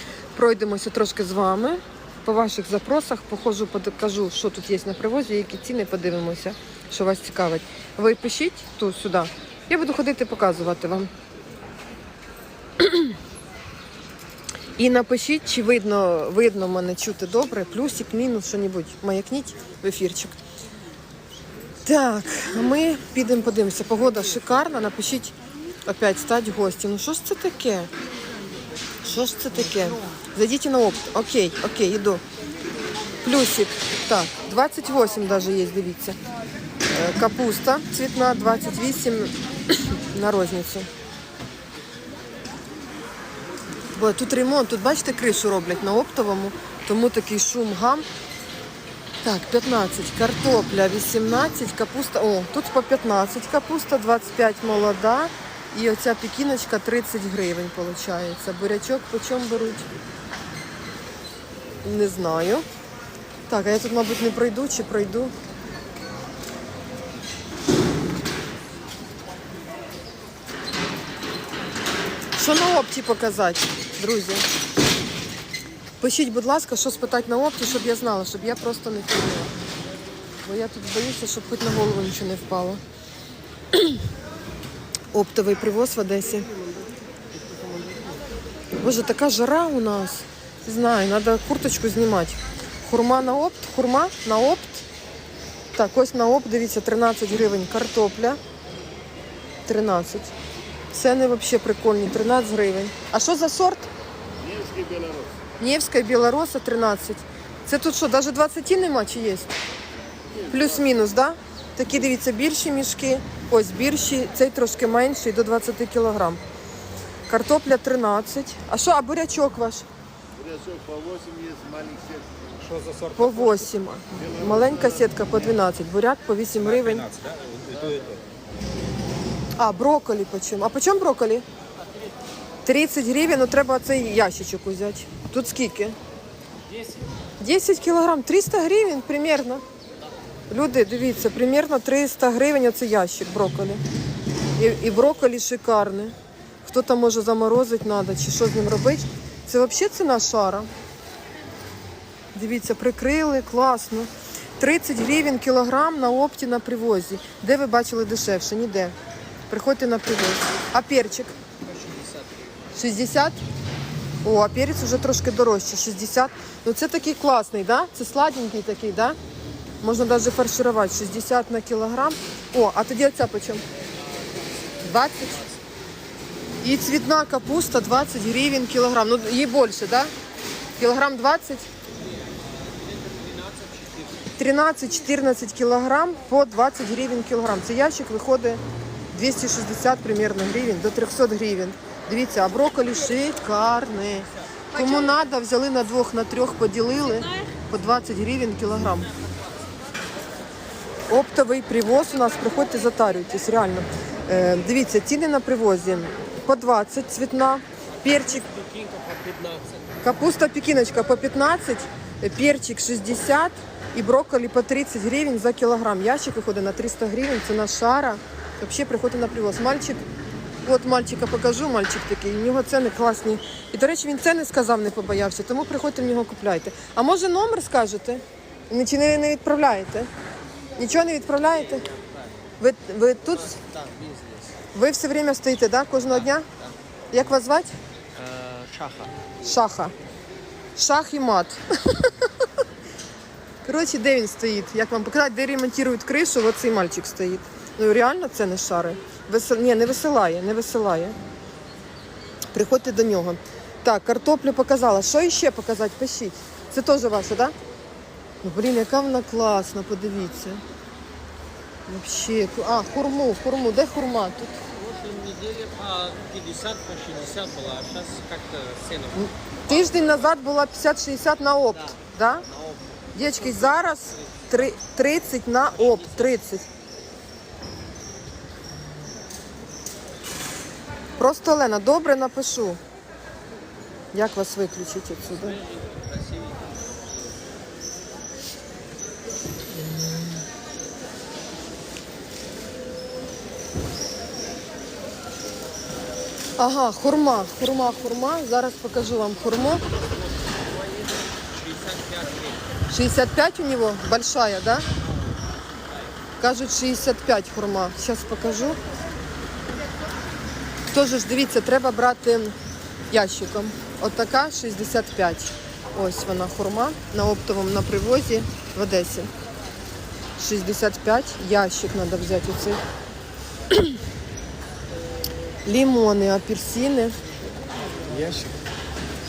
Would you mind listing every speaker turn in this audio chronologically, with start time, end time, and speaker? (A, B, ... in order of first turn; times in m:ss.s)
0:00.4-0:11.1 A
0:12.8-0:13.2 A
0:14.8-0:20.4 A
0:21.8-0:25.3 A
0:25.8-0:27.9 A
0:29.0-0:32.2 A
0:33.2-0:36.2 A
0:36.9-0:40.9 A
0:43.9-0:48.0 A
0:49.2-0:59.8 A
1:01.8-1:02.6 A
1:03.5-1:05.3 A
1:12.4-1:14.4 A
1:16.0-1:19.5 A
1:20.4-1:22.8 A
1:25.1-1:26.5 A
1:28.8-1:34.8 A
1:35.7-1:38.4 A
1:39.6-1:40.3 A
1:40.9-1:43.9 A
1:44.4-1:45.4 B
1:45.6-1:49.5 A
1:50.5-1:56.4 A
1:57.3-1:59.8 A
2:00.4-2:02.4 B
2:02.6-2:03.7 C
2:03.1-2:07.1 A
2:04.2-2:04.8 B
2:06.6-2:08.2 C
2:09.6-2:11.4 A
2:12.6-2:16.0 A
2:17.4-2:19.6 A
2:20.5-2:23.8 A
2:24.6-2:30.7 A
2:32.3-2:38.9 A
2:39.5-2:41.3 A
2:42.7-2:43.4 A
2:44.2-2:49.2 A
2:49.8-2:53.6 A
2:54.8-2:55.4 A
2:56.6-3:00.1 A
3:00.8-3:01.7 A
3:03.0-3:03.9 D
3:04.4-3:19.1 A
3:21.1-3:28.5 A
3:28.8-3:29.6 D
3:30.0-3:40.0 A
3:40.6-3:50.1 A
3:50.8-3:51.9 A
3:51.9-3:52.2 D
3:52.6-3:53.6 A
3:53.6-3:54.5 D
3:54.7-3:56.5 A
3:57.1-3:57.7 A
3:58.2-3:59.1 D
3:59.4-3:59.9 A
4:00.8-4:02.3 A
4:03.6-4:11.2 A
4:12.5-4:17.5 A
4:18.4-4:20.6 A
4:21.9-4:24.6 A
4:24.8-4:29.1 D
4:29.1-4:32.4 A
4:33.1-4:36.7 A
4:41.2-4:42.8 A
4:44.1-4:45.6 A
4:56.6-4:59.8 A
5:01.7-5:02.4 D
5:02.9-5:04.8 A
5:06.4-5:08.8 A
5:10.9-5:12.5 A
5:13.1-5:19.3 A
5:20.4-5:22.8 A
5:25.6-5:27.2 A
5:28.1-5:28.5 C